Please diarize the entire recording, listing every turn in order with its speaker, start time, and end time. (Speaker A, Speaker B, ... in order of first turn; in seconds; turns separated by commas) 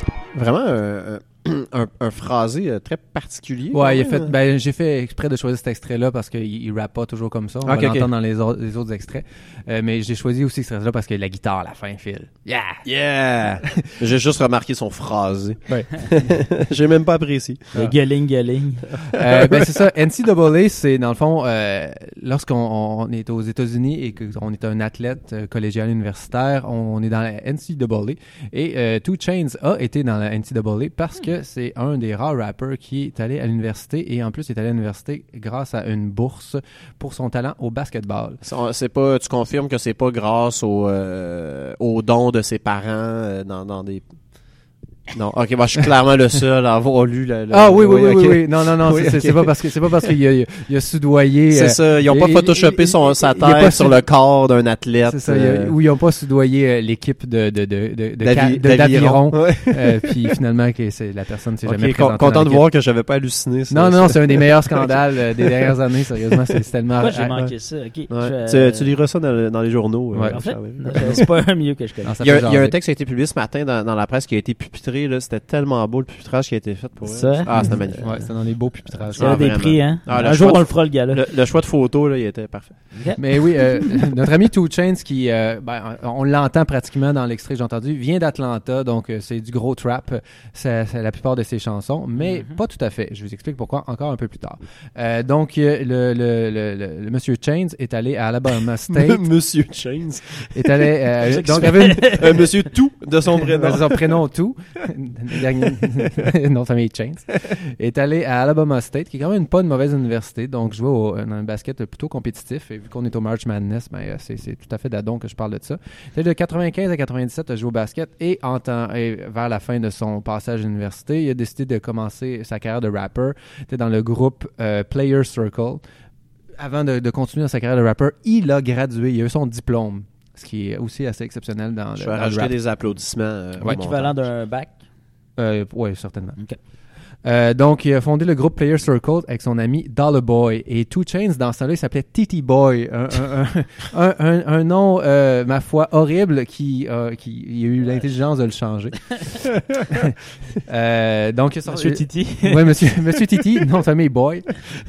Speaker A: 0.3-4.3, Speaker B: 3.7-12.8, Speaker A: 7.6-8.1, Speaker A: 12.8-17.7, Speaker B: 15.7-16.0, Speaker C: 17.7-19.0, Speaker A: 19.1-19.7, Speaker B: 19.1-38.4, Speaker A: 38.4-44.0, Speaker A: 45.1-50.1, Speaker B: 47.5-54.0, Speaker A: 51.5-55.7, Speaker B: 55.0-62.6, Speaker A: 58.2-60.3, Speaker A: 61.6-66.6, Speaker B: 63.7-67.3, Speaker C: 67.0-68.9, Speaker A: 68.1-71.2, Speaker B: 70.1-70.4, Speaker C: 70.3-72.1, Speaker B: 71.0-71.2, Speaker B: 72.0-72.8, Speaker A: 72.2-78.3, Speaker C: 77.1-78.3, Speaker B: 77.5-79.6, Speaker A: 79.1-83.4, Speaker C: 79.2-81.2, Speaker C: 82.9-83.2, Speaker B: 83.2-99.2, Speaker C: 92.2-92.6, Speaker A: 98.9-104.2, Speaker B: 100.5-102.5, Speaker C: 101.2-102.5, Speaker B: 103.3-125.8, Speaker A: 105.6-106.2, Speaker B: 126.6-132.5, Speaker A: 132.0-134.3, Speaker C: 133.6-134.8, Speaker B: 135.4-136.4, Speaker B: 137.2-149.2, Speaker B: 149.9-154.6, Speaker C: 151.7-152.8